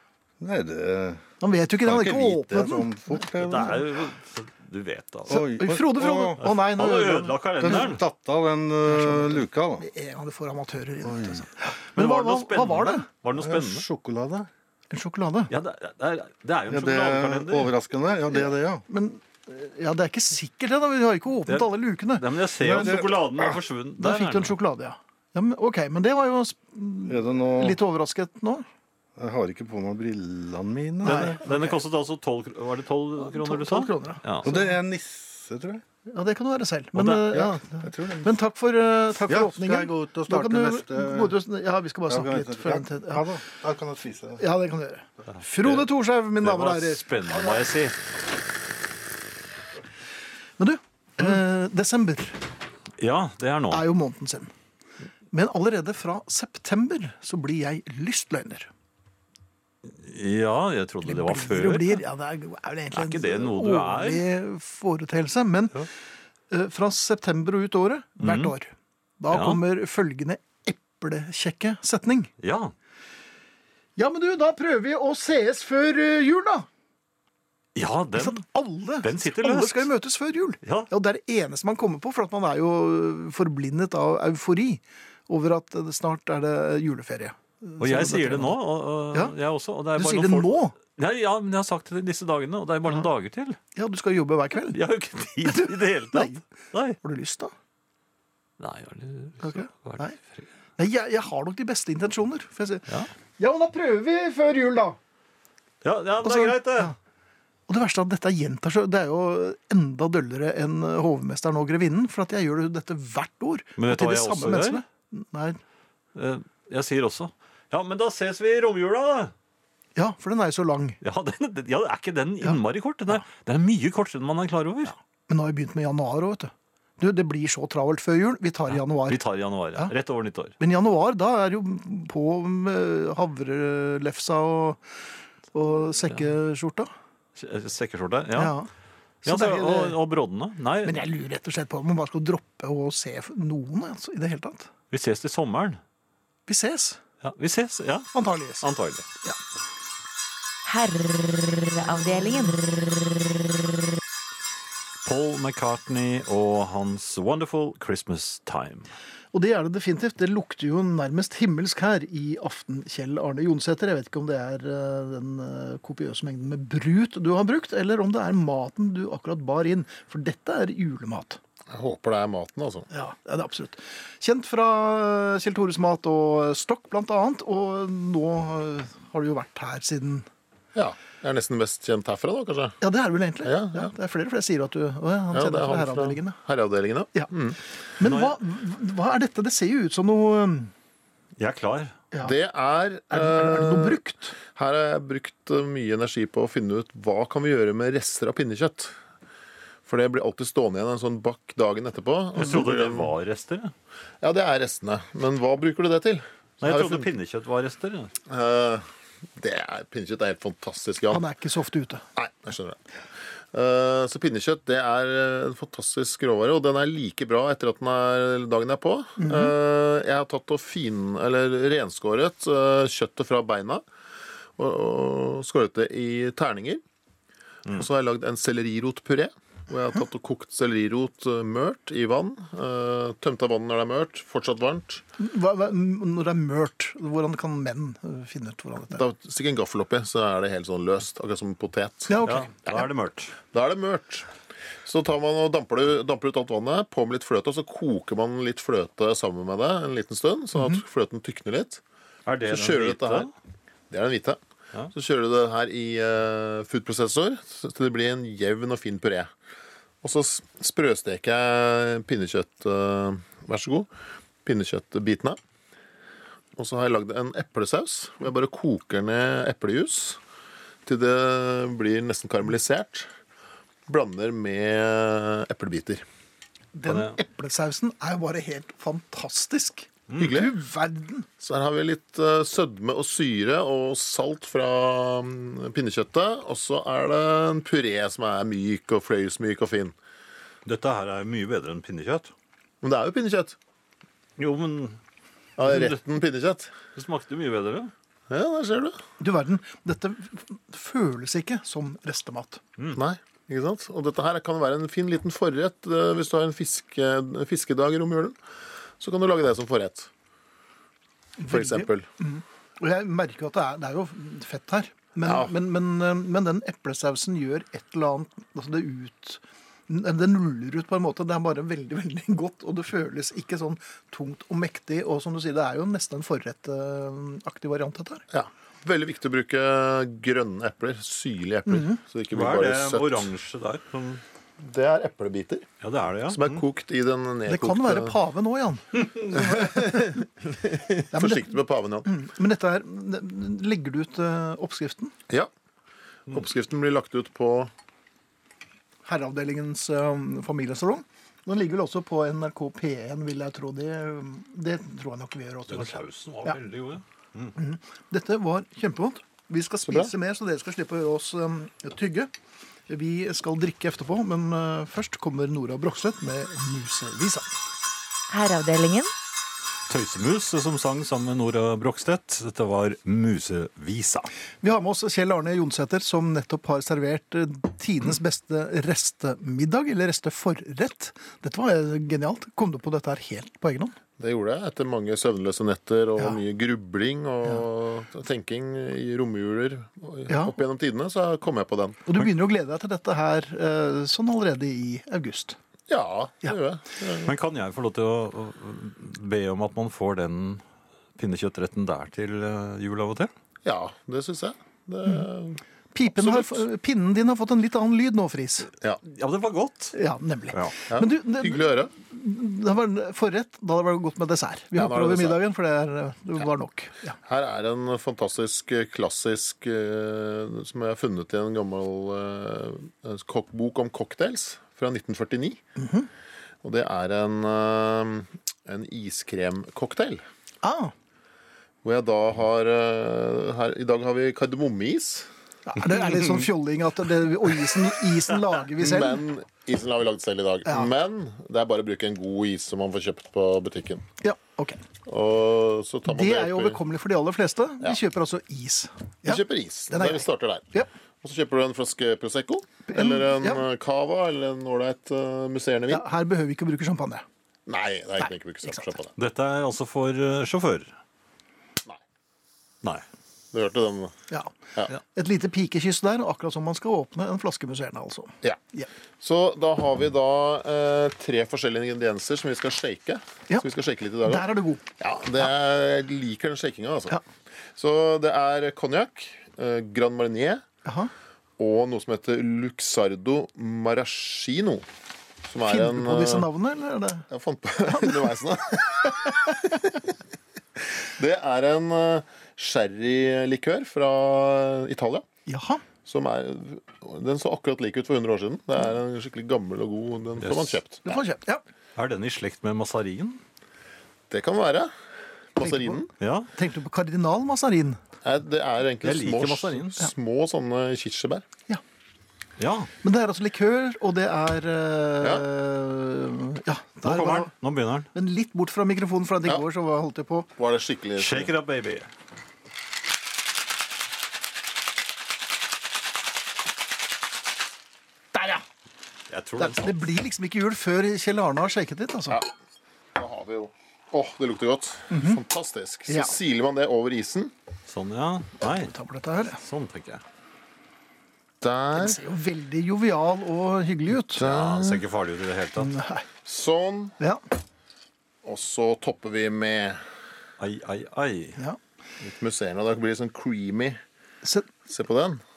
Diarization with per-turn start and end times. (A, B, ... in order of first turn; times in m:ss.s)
0:00.4-0:01.2 A
0:01.4-0:03.0 B
0:01.8-0:03.9 A
0:03.4-0:05.4 C
0:05.3-0:06.4 A
0:05.3-0:07.9 B
0:06.4-0:08.0 C
0:07.6-0:09.8 A
0:08.9-0:13.1 B
0:11.1-0:11.4 A
0:12.0-0:13.9 C
0:13.3-0:14.5 A
0:14.9-0:15.5 B
0:15.5-0:17.7 C
0:16.7-0:18.8 A
0:18.3-0:23.0 B
0:21.5-0:24.6 C
0:22.6-0:23.6 A
0:24.0-0:28.7 B
0:27.1-0:27.8 A
0:29.2-0:31.4 A
0:31.0-0:31.8 B
0:31.0-0:34.5 C
0:33.3-0:34.6 B
0:34.4-0:35.8 A
0:36.1-0:43.3 B
0:37.0-0:37.2 C
0:37.3-0:38.4 A
0:39.3-0:41.4 A
0:42.1-0:44.4 A
0:44.4-0:47.2 B
0:45.6-0:45.9 C
0:46.4-0:48.0 C
0:50.6-0:52.4 B
0:53.0-0:53.9 C
0:53.7-0:54.5 B
0:55.3-0:58.7 B
0:59.8-1:02.0 C
1:01.0-1:05.9 B
1:02.9-1:04.2 C
1:06.5-1:12.3 B
1:08.2-1:08.5 C
1:09.3-1:09.6 C
1:12.4-1:12.7 C
1:14.0-1:16.7 B
1:17.8-1:18.4 C
1:18.2-1:28.6 B
1:19.0-1:19.9 C
1:20.6-1:20.9 C
1:27.8-1:33.6 C
1:30.0-1:30.8 B
1:33.8-1:34.8 B
1:34.7-1:37.0 C
1:35.4-1:36.4 B
1:37.0-1:37.5 B
1:38.6-1:40.4 C
1:39.4-1:40.2 B
1:40.8-1:45.0 B
1:45.8-1:46.9 C
1:46.2-1:47.0 B
1:47.7-1:55.6 B
1:53.8-1:54.8 C
1:56.2-1:59.3 C
2:00.0-2:01.0 B
2:01.0-2:04.9 C
2:02.4-2:03.2 B
2:04.9-2:09.2 B
2:08.7-2:10.6 C
2:10.6-2:14.8 B
2:15.5-2:16.9 B
2:17.4-2:18.6 C
2:18.4-2:18.7 B
2:19.2-2:20.0 B
2:19.2-2:21.0 C
2:20.8-2:24.7 B
2:24.9-2:25.8 C
2:26.5-2:27.0 B
2:27.2-2:29.1 C
2:28.1-2:28.7 B
2:30.6-2:33.4 D
2:35.0-2:38.9 C
2:39.3-2:51.4 B
2:51.7-2:52.9 E
2:52.9-3:00.3 B
3:00.8-3:02.8 E
3:02.8-3:06.4 B
3:03.4-3:03.9 E
3:05.3-3:07.6 E
3:08.0-3:10.7 B
3:08.0-3:08.4 C
3:11.4-3:12.0 C
3:12.2-3:18.9 E
3:13.1-3:14.4 B
3:19.9-3:23.1 E
3:22.4-3:23.7 C
3:24.2-3:27.1 E
3:26.6-3:28.1 C
3:28.3-3:28.9 E
3:29.4-3:31.2 E
3:31.1-3:32.0 B
3:32.2-3:32.8 E
3:33.5-3:43.8 E
3:39.2-3:39.5 B
3:44.6-3:46.8 E
3:47.7-3:55.0 E
3:55.2-3:59.0 B
3:58.9-4:02.2 E
4:02.1-4:02.9 B
4:02.2-4:03.4 C
4:03.5-4:04.3 E
4:04.8-4:11.8 E
4:12.3-4:13.3 C
4:12.5-4:13.3 E
4:13.9-4:14.4 E
4:14.9-4:19.3 E
4:20.0-4:23.9 E
4:24.4-4:25.4 E
4:26.6-4:30.2 E
4:30.8-4:33.1 E
4:33.9-4:36.0 E
4:36.7-4:41.3 B
4:36.9-4:37.2 C
4:40.2-4:40.5 E
4:41.4-4:50.0 E
4:50.6-4:52.3 C
4:52.8-4:53.6 E
4:54.4-4:55.0 C
4:55.6-4:56.7 E
4:55.6-4:56.0 C
4:57.0-4:57.9 C
4:58.3-4:59.0 E
4:59.2-5:02.6 B
5:02.9-5:08.4 E
5:09.0-5:10.1 E
5:11.4-5:28.2 B
5:11.5-5:12.1 E
5:15.2-5:15.5 E
5:28.3-5:33.3 E
5:31.7-5:32.0 B
5:32.3-5:34.2 C
5:34.6-5:35.7 E
5:35.8-5:36.6 C
5:36.3-5:38.1 E
5:37.5-5:40.2 B
5:39.3-5:42.1 E
5:41.1-5:45.1 B
5:46.3-5:47.7 E
5:49.0-5:56.6 B
5:55.7-5:57.5 C
5:57.6-6:02.3 B
5:59.9-6:00.1 E
6:02.9-6:07.6 B
6:08.3-6:09.1 D
6:09.9-6:14.3 C
6:14.6-6:24.0 B
6:24.2-6:32.0 E
6:30.3-6:30.6 B
6:32.1-6:35.6 B
6:35.9-6:37.3 E
6:37.3-6:40.6 C
6:41.2-6:43.3 C
6:43.6-6:46.6 E
6:45.9-6:48.7 B
6:49.0-6:50.0 C
6:49.9-6:57.2 B
6:50.9-6:51.9 E
6:54.8-6:55.4 E
6:57.3-7:05.6 E
7:05.8-7:06.1 B
7:06.6-7:10.2 E
7:10.6-7:10.9 B
7:11.8-7:15.3 E
7:15.7-7:19.2 B
7:18.8-7:24.1 E
7:20.7-7:20.9 B
7:24.2-7:24.8 B
7:25.1-7:26.8 E
7:26.1-7:30.9 B
7:29.2-7:30.7 E
7:31.2-7:36.0 E
7:32.9-7:33.6 B
7:35.9-7:37.3 B
7:37.7-7:39.1 E
7:38.2-7:38.9 B
7:39.2-7:40.9 C
7:43.5-7:44.2 E
7:44.3-7:48.9 B
7:49.2-7:57.2 E
7:54.2-7:54.9 B
7:57.8-8:00.6 E
8:00.8-8:01.1 B
8:01.6-8:04.9 E
8:05.4-8:06.5 E
8:05.6-8:07.3 B
8:07.3-8:10.0 E
8:07.8-8:08.3 B
8:09.0-8:09.7 B
8:11.0-8:15.3 E
8:15.5-8:15.8 B
8:16.0-8:21.2 E
8:20.4-8:20.8 C
8:21.1-8:21.6 B
8:22.0-8:23.4 C
8:24.3-8:24.9 E
8:25.6-8:26.1 E
8:25.6-8:28.0 B
8:26.2-8:26.5 C
8:28.2-8:31.4 E
8:29.0-8:30.0 C
8:32.6-8:32.9 C
8:33.0-8:37.5 B
8:37.0-8:38.1 C
8:38.1-8:40.5 B
8:40.6-8:41.5 E
8:41.2-8:42.1 C
8:48.3-8:48.6 B
8:49.3-8:50.0 C
8:49.6-8:52.4 B
8:53.2-8:57.5 E
8:55.1-8:55.4 B
8:56.1-8:56.4 B
8:57.9-8:59.0 C
8:58.6-8:59.6 B
8:59.5-9:00.2 C
9:01.6-9:02.2 E
9:02.0-9:04.5 B
9:04.4-9:05.0 E
9:04.4-9:05.9 C
9:05.8-9:06.3 B
9:06.4-9:07.2 E
9:08.4-9:10.0 E
9:10.6-9:11.6 C
9:12.2-9:14.0 E
9:14.4-9:14.7 B
9:14.9-9:15.4 E